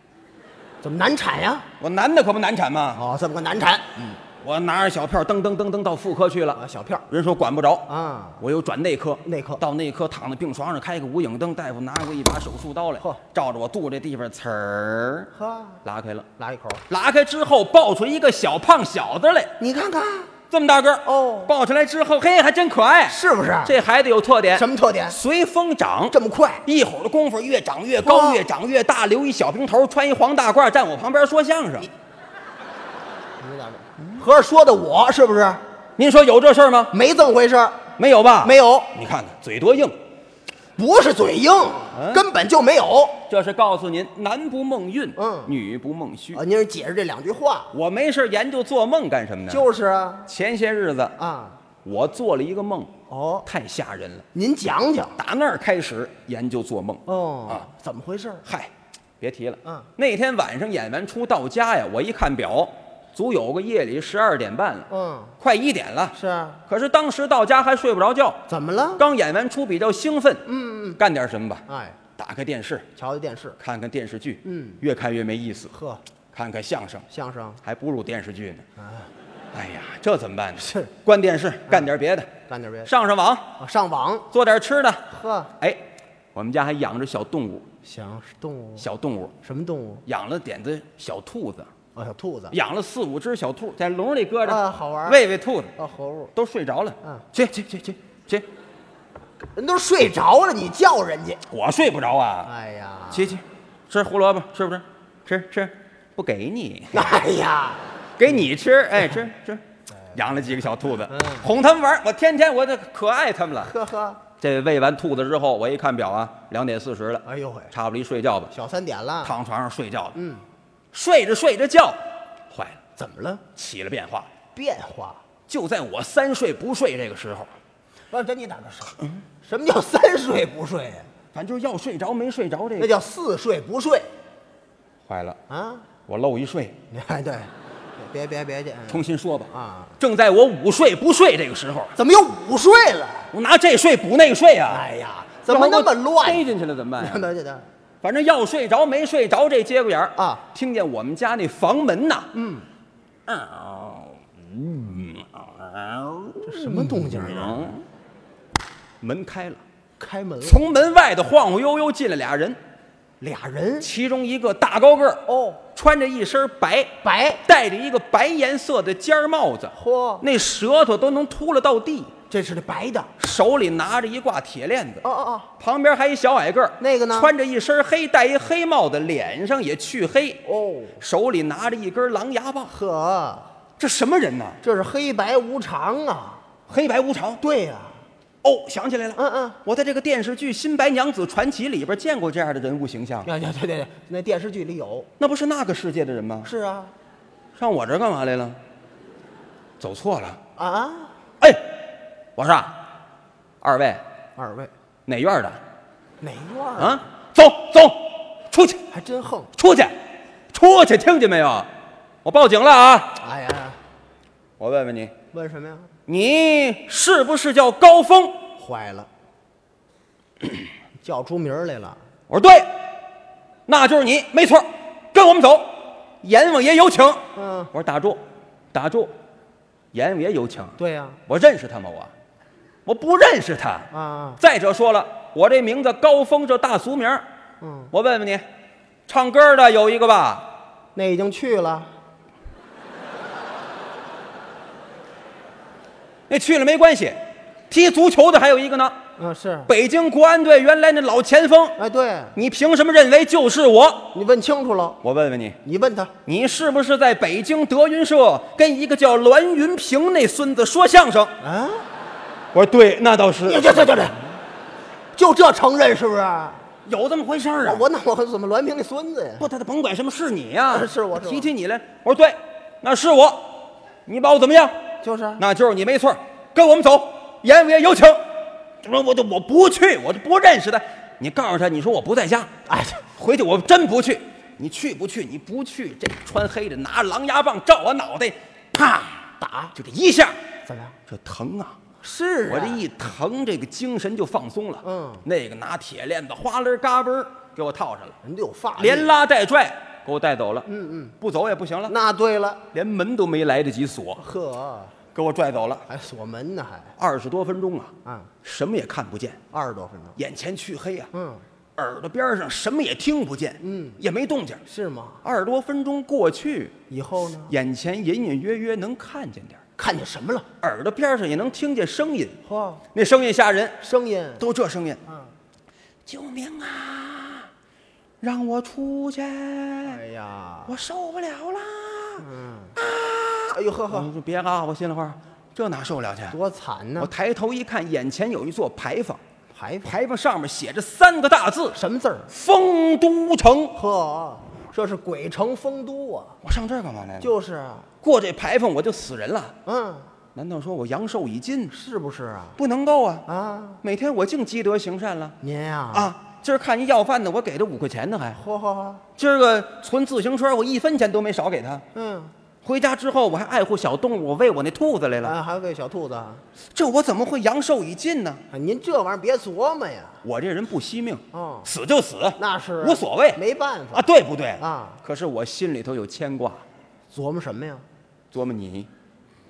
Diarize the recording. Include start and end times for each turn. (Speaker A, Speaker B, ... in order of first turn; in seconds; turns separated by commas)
Speaker A: 0.8-1.7, Speaker B: 1.8-3.0, Speaker A: 2.9-4.2, Speaker B: 4.4-7.9, Speaker A: 6.5-7.0, Speaker A: 7.9-8.4, Speaker B: 8.4-15.3, Speaker A: 9.2-9.6, Speaker A: 15.3-15.8, Speaker B: 15.8-16.3, Speaker A: 16.4-16.8, Speaker B: 16.9-19.5, Speaker A: 19.6-20.3, Speaker B: 20.5-31.9, Speaker A: 21.0-21.5, Speaker A: 23.1-23.8, Speaker A: 24.5-25.2, Speaker A: 26.1-26.6, Speaker A: 28.0-28.4, Speaker A: 33.4-35.6, Speaker B: 36.0-36.9, Speaker A: 36.9-37.9, Speaker B: 38.0-40.0, Speaker A: 38.4-38.9, Speaker A: 40.8-43.2, Speaker B: 41.9-42.3, Speaker B: 43.3-46.4, Speaker A: 45.2-45.5, Speaker A: 46.3-47.7, Speaker B: 47.7-49.6, Speaker A: 49.5-50.3, Speaker B: 50.3-51.1, Speaker A: 51.2-51.6, Speaker B: 51.8-52.9, Speaker A: 53.1-53.5, Speaker B: 53.5-54.2, Speaker A: 54.3-55.1, Speaker B: 55.2-57.6, Speaker A: 57.0-58.4, Speaker B: 58.4-64.9, Speaker A: 64.9-65.3, Speaker B: 65.4-66.1, Speaker A: 66.1-66.6, Speaker B: 66.7-68.4, Speaker A: 68.5-69.0, Speaker B: 69.0-70.4, Speaker A: 70.5-71.0, Speaker B: 71.0-71.6, Speaker A: 71.7-72.0, Speaker B: 72.2-72.9, Speaker A: 73.0-73.6, Speaker B: 73.6-75.7, Speaker A: 74.4-74.8, Speaker A: 75.7-76.0, Speaker B: 76.3-77.1, Speaker A: 77.1-77.6, Speaker B: 77.6-78.6, Speaker A: 78.8-79.1, Speaker B: 79.5-82.3, Speaker A: 80.6-80.9, Speaker A: 82.5-82.9, Speaker B: 82.8-83.5, Speaker A: 83.6-84.3, Speaker B: 84.3-85.0, Speaker A: 85.1-85.5, Speaker B: 85.6-85.8, Speaker B: 86.3-87.7, Speaker A: 87.8-88.8, Speaker B: 88.8-89.3, Speaker A: 89.4-90.0, Speaker B: 90.0-91.7, Speaker A: 91.9-92.5, Speaker B: 92.5-95.7, Speaker A: 94.4-95.2, Speaker A: 95.8-96.3, Speaker B: 96.3-98.5, Speaker A: 99.5-101.4, Speaker B: 101.5-102.5, Speaker A: 102.5-103.3, Speaker B: 103.1-107.1, Speaker A: 106.9-107.9, Speaker B: 108.2-113.7, Speaker A: 111.1-111.5, Speaker A: 113.6-114.2, Speaker B: 114.4-118.5, Speaker A: 117.2-117.7, Speaker A: 118.5-119.3, Speaker B: 119.2-120.2, Speaker A: 120.1-120.4, Speaker B: 120.9-122.8, Speaker A: 123.0-123.4, Speaker B: 123.5-124.3, Speaker A: 124.5-125.2, Speaker B: 125.5-127.5, Speaker A: 128.1-131.1, Speaker B: 131.3-132.9, Speaker A: 132.8-134.1, Speaker B: 135.1-135.4, Speaker A: 135.5-135.9, Speaker B: 136.1-136.8, Speaker A: 136.9-140.0, Speaker B: 138.9-141.9, Speaker A: 141.9-143.3, Speaker B: 143.3-144.8, Speaker A: 144.7-146.4, Speaker B: 145.5-147.3, Speaker A: 147.0-147.7, Speaker B: 148.0-152.3, Speaker A: 150.2-150.4, Speaker A: 152.3-152.7, Speaker B: 153.3-157.8, Speaker A: 156.4-157.7, Speaker B: 159.0-159.6, Speaker A: 160.0-160.6, Speaker B: 160.4-162.6, Speaker A: 163.2-163.9, Speaker B: 163.8-172.1, Speaker A: 165.2-165.6, Speaker A: 167.0-167.4, Speaker A: 169.7-170.2, Speaker A: 172.3-173.1, Speaker B: 173.2-175.0, Speaker A: 175.0-175.5, Speaker B: 175.6-180.4, Speaker A: 176.8-177.3, Speaker A: 180.4-181.0, Speaker B: 181.0-182.7, Speaker A: 182.7-183.5, Speaker B: 183.8-184.6, Speaker A: 184.6-186.4, Speaker B: 186.7-187.4, Speaker A: 187.4-188.0, Speaker B: 188.4-193.3, Speaker A: 189.2-189.6, Speaker A: 193.2-195.1, Speaker B: 195.2-196.5, Speaker A: 196.4-196.9, Speaker B: 197.6-198.6, Speaker B: 199.8-200.4, Speaker A: 200.6-201.1, Speaker B: 201.4-201.7, Speaker B: 202.3-202.8, Speaker B: 203.6-204.0, Speaker A: 204.4-204.7, Speaker B: 205.1-205.6, Speaker A: 206.2-207.0, Speaker B: 206.8-208.8, Speaker A: 208.9-209.5, Speaker B: 209.6-210.0, Speaker B: 210.5-211.7, Speaker B: 212.2-213.2, Speaker A: 213.2-213.8, Speaker B: 214.6-215.1, Speaker A: 215.3-215.9, Speaker B: 216.1-218.4, Speaker A: 218.6-219.1, Speaker A: 221.0-222.0, Speaker B: 222.3-222.8, Speaker B: 223.7-228.2, Speaker A: 227.3-227.7, Speaker B: 228.7-229.1, Speaker B: 229.9-232.1, Speaker A: 230.8-231.2, Speaker B: 232.8-237.2, Speaker A: 233.9-234.4, Speaker A: 237.6-237.9, Speaker B: 237.9-238.4, Speaker B: 239.1-240.5, Speaker A: 240.9-241.9, Speaker B: 246.3-249.0, Speaker A: 249.2-249.7, Speaker B: 249.7-251.8, Speaker A: 251.8-252.3, Speaker B: 252.3-254.1, Speaker A: 254.1-255.0, Speaker B: 255.0-255.6, Speaker A: 255.6-256.1, Speaker B: 256.2-261.3, Speaker A: 261.4-261.8, Speaker B: 262.5-264.1, Speaker A: 263.4-264.2, Speaker A: 265.1-266.6, Speaker B: 266.8-267.8, Speaker A: 267.6-269.5, Speaker B: 269.4-274.8, Speaker A: 270.7-271.5, Speaker A: 275.0-275.4, Speaker B: 275.4-278.2, Speaker B: 278.8-282.5, Speaker A: 282.7-283.0, Speaker B: 283.1-290.4, Speaker A: 289.4-289.7, Speaker A: 290.6-290.9, Speaker B: 291.1-291.8, Speaker A: 292.0-292.8, Speaker B: 292.5-298.1, Speaker A: 294.8-295.2, Speaker A: 298.2-299.1, Speaker B: 298.8-300.7, Speaker A: 300.7-301.1, Speaker B: 301.2-301.9, Speaker A: 301.9-302.6, Speaker B: 302.7-304.2, Speaker A: 304.2-304.9, Speaker B: 305.1-305.9, Speaker A: 305.9-306.9, Speaker B: 307.0-307.9, Speaker A: 308.0-308.3, Speaker B: 308.4-309.4, Speaker A: 309.5-310.2, Speaker B: 310.2-311.1, Speaker A: 311.1-311.4, Speaker B: 311.8-314.6, Speaker A: 313.6-314.0, Speaker A: 314.6-315.2, Speaker B: 315.2-316.7, Speaker A: 316.9-317.5, Speaker B: 317.5-319.6, Speaker A: 319.8-320.5, Speaker B: 320.6-322.4, Speaker A: 322.4-322.8, Speaker B: 322.9-323.8, Speaker A: 323.8-324.4, Speaker B: 324.4-325.0, Speaker A: 325.1-325.3, Speaker B: 326.1-327.5, Speaker B: 328.2-330.0, Speaker A: 329.8-330.7, Speaker B: 330.7-332.2, Speaker A: 332.2-332.8, Speaker B: 332.8-336.4, Speaker A: 333.5-334.1, Speaker A: 336.3-337.1, Speaker B: 337.0-339.2, Speaker A: 339.5-339.9, Speaker B: 339.8-341.8, Speaker A: 341.7-342.3, Speaker B: 342.3-343.7, Speaker A: 343.7-346.4, Speaker B: 346.4-347.3, Speaker A: 347.2-347.9, Speaker B: 348.0-349.5, Speaker A: 349.6-350.1, Speaker B: 350.3-351.7, Speaker A: 351.7-352.6, Speaker B: 352.6-353.2, Speaker A: 353.2-353.8, Speaker B: 353.8-355.4, Speaker A: 355.4-356.1, Speaker B: 355.9-358.4, Speaker A: 358.4-359.0, Speaker B: 359.2-361.8, Speaker A: 361.9-362.3, Speaker B: 362.6-365.3, Speaker A: 365.2-366.4, Speaker B: 366.7-368.4, Speaker A: 368.5-370.2, Speaker B: 370.2-373.4, Speaker A: 371.3-371.7, Speaker A: 372.4-374.0, Speaker B: 373.9-376.6, Speaker A: 374.6-375.0, Speaker A: 377.1-377.8, Speaker B: 378.3-378.9